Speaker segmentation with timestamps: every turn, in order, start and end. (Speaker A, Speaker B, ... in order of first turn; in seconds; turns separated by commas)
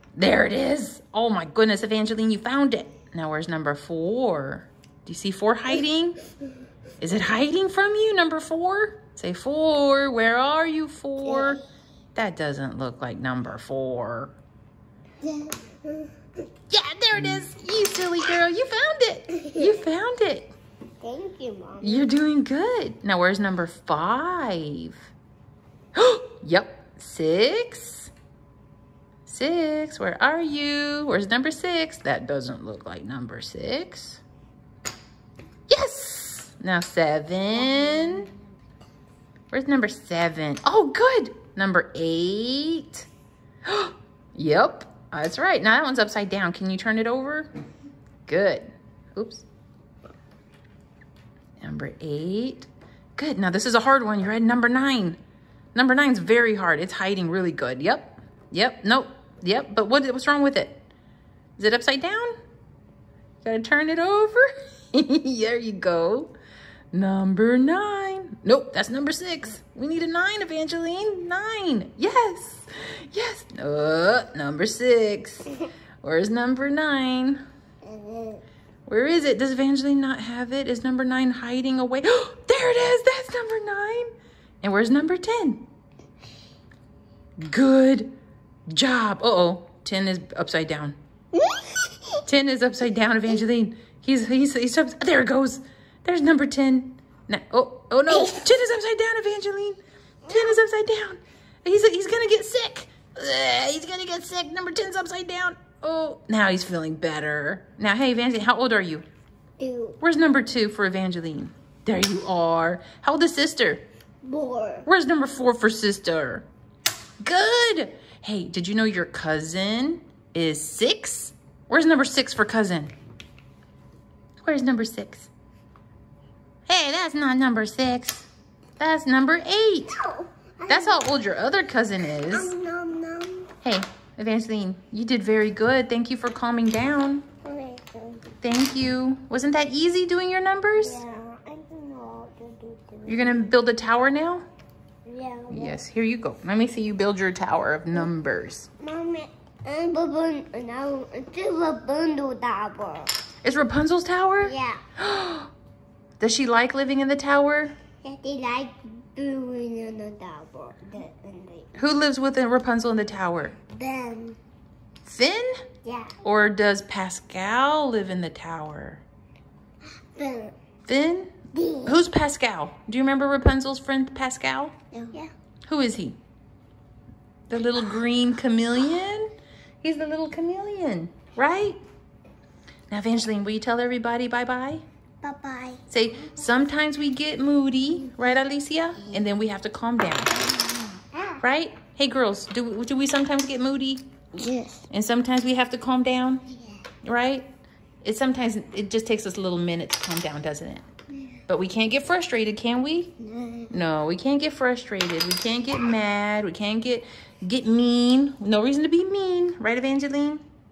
Speaker A: 0.1-6.2, Speaker A: 7.0-11.6, Speaker B: 11.2-11.6, Speaker A: 12.1-14.3, Speaker B: 15.2-16.1, Speaker A: 16.7-20.5, Speaker B: 19.3-19.8, Speaker B: 21.0-22.1, Speaker A: 21.8-25.1, Speaker A: 25.9-28.1, Speaker A: 29.2-34.2, Speaker A: 35.7-38.3, Speaker A: 39.5-43.1, Speaker A: 43.6-47.5, Speaker A: 48.3-49.4, Speaker A: 51.6-55.2, Speaker A: 55.7-60.8, Speaker A: 61.6-62.4, Speaker A: 63.4-66.3, Speaker A: 66.9-77.4, Speaker B: 77.8-78.4, Speaker A: 78.9-84.1, Speaker A: 84.6-85.7, Speaker A: 87.4-88.1, Speaker A: 88.7-91.0, Speaker B: 91.3-92.2, Speaker A: 92.2-109.0, Speaker B: 98.1-98.4, Speaker B: 100.3-100.6, Speaker B: 109.6-110.0, Speaker A: 110.0-113.8, Speaker B: 114.2-114.9, Speaker A: 114.8-116.5, Speaker A: 117.2-122.9, Speaker A: 124.4-125.3, Speaker A: 126.7-130.0, Speaker B: 130.0-131.1, Speaker A: 130.7-132.5, Speaker B: 132.3-133.5, Speaker A: 133.6-137.2, Speaker B: 137.4-138.2, Speaker A: 138.4-141.0, Speaker B: 140.7-143.5, Speaker A: 143.1-144.4, Speaker B: 145.1-145.8, Speaker A: 145.5-148.7, Speaker B: 148.8-153.1, Speaker A: 153.4-155.5, Speaker B: 154.4-154.8, Speaker A: 156.2-157.7, Speaker B: 158.0-161.7, Speaker A: 161.7-163.6, Speaker B: 163.7-164.4, Speaker A: 165.0-165.6, Speaker B: 165.8-166.2, Speaker A: 166.2-169.0, Speaker B: 170.2-170.5, Speaker A: 170.8-174.7, Speaker B: 171.5-172.0, Speaker B: 174.9-175.3, Speaker A: 175.7-176.2, Speaker A: 177.5-179.3, Speaker A: 179.8-181.8, Speaker A: 182.9-184.8, Speaker B: 185.2-185.8, Speaker A: 185.9-190.5, Speaker A: 191.4-194.0, Speaker B: 194.3-194.8, Speaker A: 194.9-196.4, Speaker A: 197.0-197.5, Speaker A: 198.0-200.8, Speaker A: 201.5-203.1, Speaker B: 203.2-203.7, Speaker A: 203.7-210.4